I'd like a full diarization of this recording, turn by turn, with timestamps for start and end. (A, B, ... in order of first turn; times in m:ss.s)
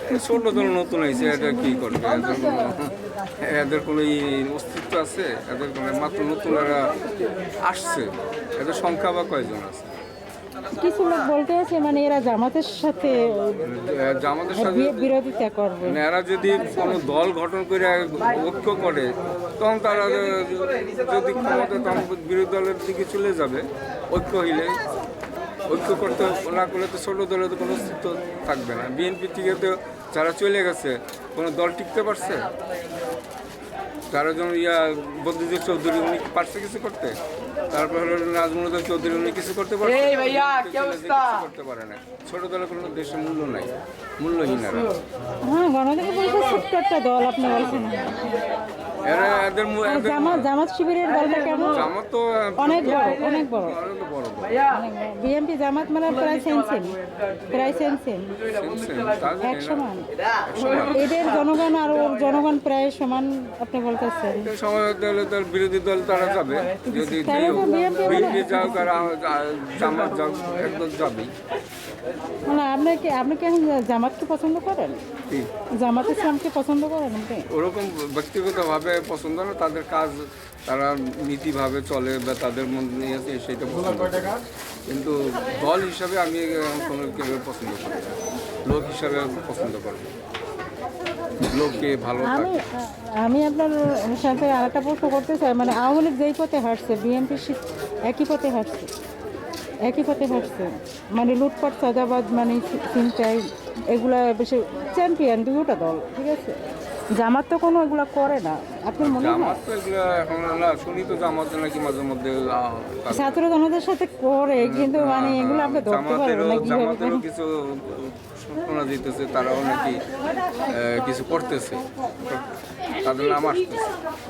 0:00.1-0:06.9 A
0:00.3-0:02.8 B
0:07.6-0:09.9 A
0:10.7-0:13.6 B
0:13.6-0:15.1 A
0:14.5-0:17.0 B
0:15.8-0:24.8 A
0:25.7-0:32.5 A
0:34.1-0:37.1 A
0:37.7-0:44.9 A
0:45.4-0:48.3 B
0:47.6-0:48.0 A
0:49.0-0:50.5 A
0:49.8-0:51.9 B
0:51.7-0:54.6 A
0:52.6-0:53.8 B
0:54.7-0:57.0 B
0:57.5-0:58.3 B
0:58.4-0:59.9 A
0:59.4-1:00.0 B
1:00.5-1:01.1 A
1:00.7-1:04.5 B
1:04.4-1:11.3 A
1:06.9-1:08.9 B
1:12.5-1:15.0 B
1:15.8-1:17.5 B
1:17.5-1:28.1 A
1:28.6-1:30.1 A
1:31.4-1:32.6 A
1:32.2-1:38.9 B
1:39.8-1:46.6 B
1:47.1-1:49.6 B
1:49.0-1:53.4 A
1:53.1-1:57.2 B
1:54.6-2:00.0 A
2:00.6-2:02.4 A
2:03.0-2:03.8 A